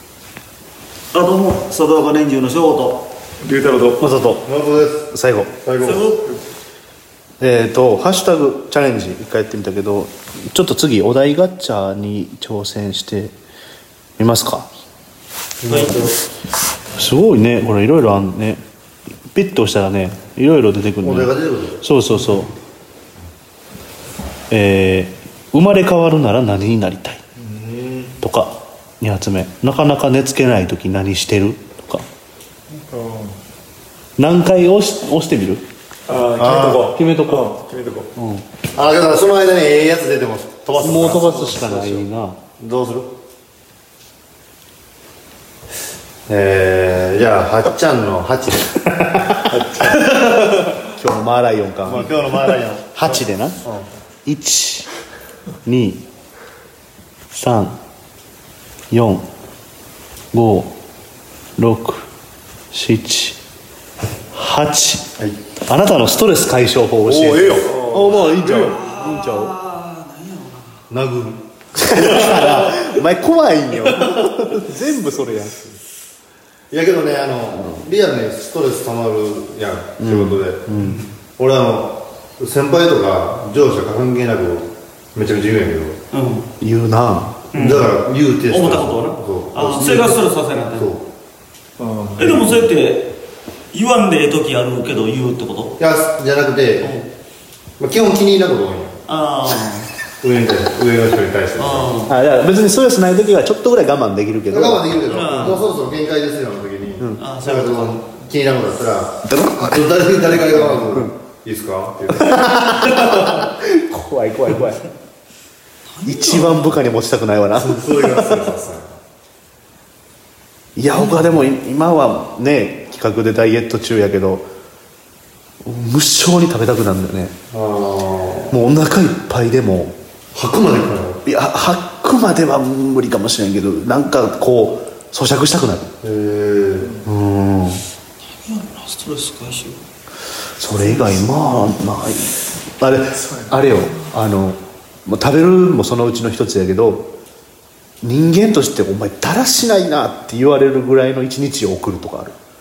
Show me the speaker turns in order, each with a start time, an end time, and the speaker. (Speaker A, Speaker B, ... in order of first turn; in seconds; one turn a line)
Speaker A: 1.1-3.0
Speaker B: 3.4-4.0
Speaker C: 4.0-4.5
Speaker D: 4.5-5.0
Speaker C: 5.0-5.5
Speaker D: 5.6-6.0
Speaker A: 5.8-6.2
Speaker C: 7.4-13.3
Speaker C: 14.2-14.7
Speaker D: 15.6-16.1
Speaker A: 15.7-16.1
Speaker C: 16.9-18.6
Speaker C: 19.3-22.5
Speaker D: 21.0-21.8
Speaker C: 24.5-27.2
Speaker B: 27.4-28.1
Speaker C: 28.2-32.0
Speaker B: 32.7-33.3
Speaker C: 34.2-35.6
Speaker B: 36.1-38.1
Speaker D: 36.4-36.9
Speaker C: 36.7-37.5
Speaker C: 38.1-38.4
Speaker D: 38.7-42.0
Speaker C: 40.8-42.4
Speaker D: 42.6-43.1
Speaker D: 46.3-49.3
Speaker B: 49.5-50.0
Speaker C: 50.1-52.1
Speaker D: 51.8-53.9
Speaker C: 52.9-53.6
Speaker C: 54.2-54.9
Speaker C: 55.6-56.0
Speaker C: 57.3-57.8
Speaker C: 58.9-59.3
Speaker C: 60.3-60.7
Speaker C: 61.6-62.1
Speaker C: 62.7-63.4
Speaker C: 64.3-65.1
Speaker C: 65.7-69.5
Speaker B: 67.1-68.8
Speaker D: 67.1-67.6
Speaker A: 68.2-70.8
Speaker D: 70.9-72.9
Speaker C: 71.8-75.6
Speaker D: 73.8-74.1
Speaker D: 76.7-80.7
Speaker C: 80.0-81.0
Speaker A: 80.8-81.1
Speaker D: 81.4-86.0
Speaker A: 86.1-86.5
Speaker C: 86.6-87.5
Speaker A: 87.5-87.9
Speaker D: 87.5-91.0
Speaker A: 88.5-90.9
Speaker B: 91.8-92.7
Speaker A: 92.2-93.1
Speaker A: 93.7-95.8
Speaker D: 95.8-96.9
Speaker A: 96.8-97.1
Speaker D: 97.8-99.0
Speaker A: 99.1-99.9
Speaker D: 100.2-101.9
Speaker A: 101.6-102.1
Speaker C: 102.1-105.6
Speaker D: 104.5-112.5
Speaker A: 105.1-105.7
Speaker A: 107.2-108.0
Speaker C: 109.3-109.9
Speaker C: 110.4-111.1
Speaker C: 112.1-114.8
Speaker D: 113.0-113.4
Speaker A: 115.9-116.7
Speaker C: 116.0-118.5
Speaker D: 117.5-118.9
Speaker C: 120.8-124.5
Speaker A: 120.9-121.3
Speaker C: 125.6-127.3
Speaker D: 127.5-128.5
Speaker C: 128.5-129.9
Speaker D: 130.3-131.2
Speaker C: 131.2-135.9
Speaker D: 136.0-137.0
Speaker C: 137.0-137.8
Speaker A: 138.3-139.8
Speaker C: 140.6-147.1
Speaker B: 143.1-143.7
Speaker C: 148.0-152.3